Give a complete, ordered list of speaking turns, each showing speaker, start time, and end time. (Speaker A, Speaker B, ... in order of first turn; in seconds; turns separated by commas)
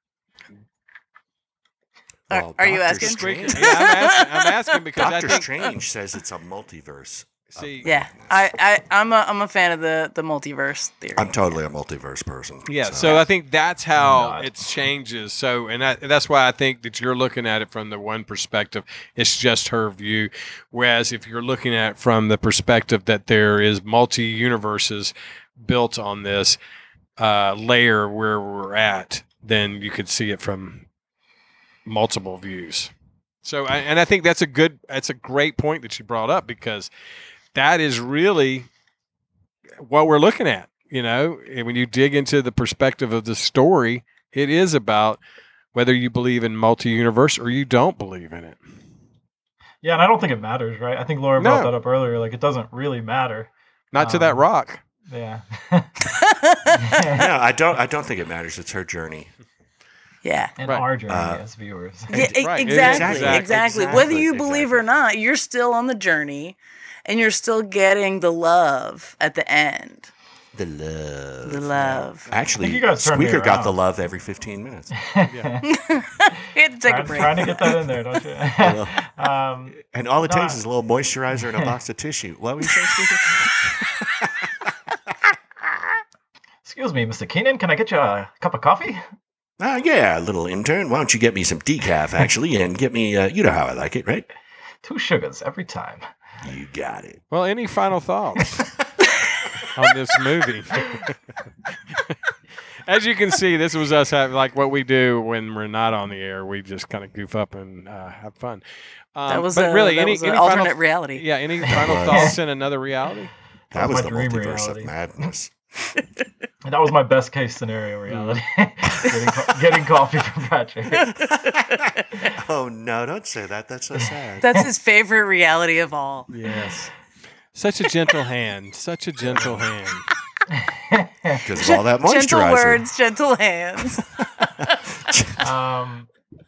Speaker A: 2.3-4.0, Speaker B: 2.3-4.5, Speaker C: 3.0-5.5, Speaker A: 5.0-8.4, Speaker C: 7.5-7.9, Speaker B: 7.8-11.4, Speaker A: 11.2-13.2, Speaker C: 12.7-26.6, Speaker D: 14.0-14.5, Speaker C: 27.2-30.9, Speaker C: 31.9-32.9, Speaker C: 33.4-36.9, Speaker C: 37.5-38.7, Speaker C: 39.8-45.2, Speaker C: 45.7-48.6, Speaker D: 49.8-54.5, Speaker C: 51.4-51.7, Speaker C: 53.9-54.8, Speaker D: 55.1-56.1, Speaker B: 56.2-57.0, Speaker D: 56.7-57.3, Speaker A: 57.1-59.3, Speaker B: 60.2-60.5, Speaker D: 60.6-62.1, Speaker A: 61.1-61.4, Speaker A: 62.1-64.9, Speaker B: 62.1-70.1, Speaker C: 62.3-64.0, Speaker A: 70.5-74.9, Speaker B: 71.5-72.3, Speaker D: 72.6-73.8, Speaker D: 75.0-75.7, Speaker C: 75.3-75.6, Speaker B: 75.6-77.8, Speaker D: 76.9-80.6, Speaker A: 78.6-79.0, Speaker A: 79.8-84.7, Speaker D: 86.7-89.0, Speaker A: 89.6-94.3, Speaker D: 94.8-96.0, Speaker A: 96.4-97.2, Speaker C: 97.3-98.6, Speaker C: 99.7-101.1, Speaker C: 102.9-108.6, Speaker C: 109.2-113.3, Speaker B: 109.3-111.2, Speaker A: 111.7-112.4, Speaker D: 112.1-112.3, Speaker D: 113.7-114.9, Speaker A: 113.7-115.5, Speaker D: 116.7-121.2, Speaker C: 118.1-118.4, Speaker A: 121.0-124.5, Speaker B: 124.4-126.3, Speaker C: 126.3-126.9, Speaker C: 127.5-130.1, Speaker D: 130.5-131.4, Speaker A: 131.4-132.9, Speaker B: 131.6-134.0, Speaker A: 134.0-135.5, Speaker D: 135.4-136.1